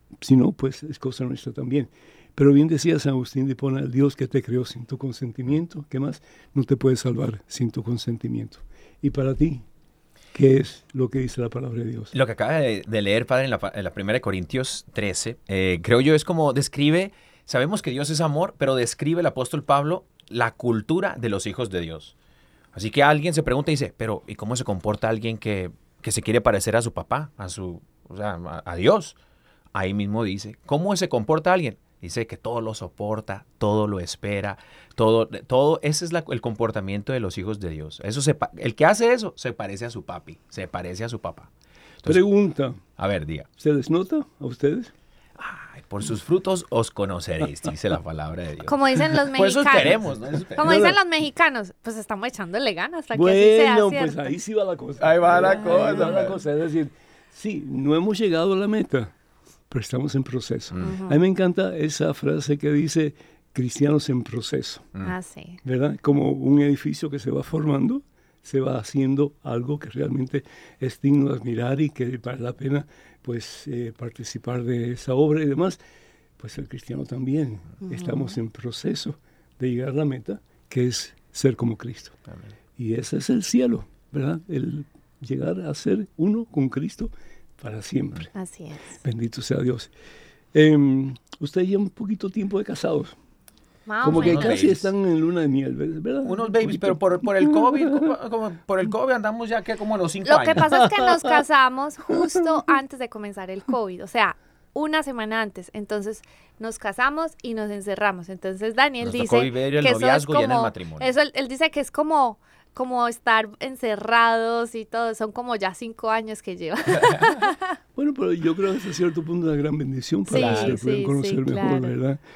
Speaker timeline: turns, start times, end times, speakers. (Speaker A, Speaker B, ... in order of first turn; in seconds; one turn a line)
Speaker A: 0.2-9.7
Speaker A: 10.3-12.1
Speaker B: 12.1-22.1
Speaker B: 22.7-29.1
Speaker B: 29.7-41.5
Speaker A: 42.0-42.8
Speaker B: 43.0-43.5
Speaker A: 43.6-44.9
Speaker B: 45.4-51.0
Speaker C: 48.6-54.3
Speaker A: 50.6-51.0
Speaker A: 53.1-59.1
Speaker B: 55.0-56.4
Speaker C: 55.4-56.2
Speaker A: 59.7-64.9
Speaker C: 60.8-61.2
Speaker C: 65.0-65.6
Speaker A: 65.6-75.8
Speaker A: 76.4-82.2
Speaker C: 77.8-78.4
Speaker A: 82.8-88.3
Speaker C: 88.3-89.0
Speaker A: 89.0-89.9
Speaker A: 90.5-93.2
Speaker C: 93.9-94.5
Speaker A: 94.0-98.1
Speaker B: 94.0-94.9
Speaker B: 96.2-100.9
Speaker C: 100.2-117.7
Speaker A: 100.8-101.0
Speaker B: 109.0-111.1
Speaker A: 118.0-122.2
Speaker C: 120.2-121.9
Speaker B: 120.3-120.8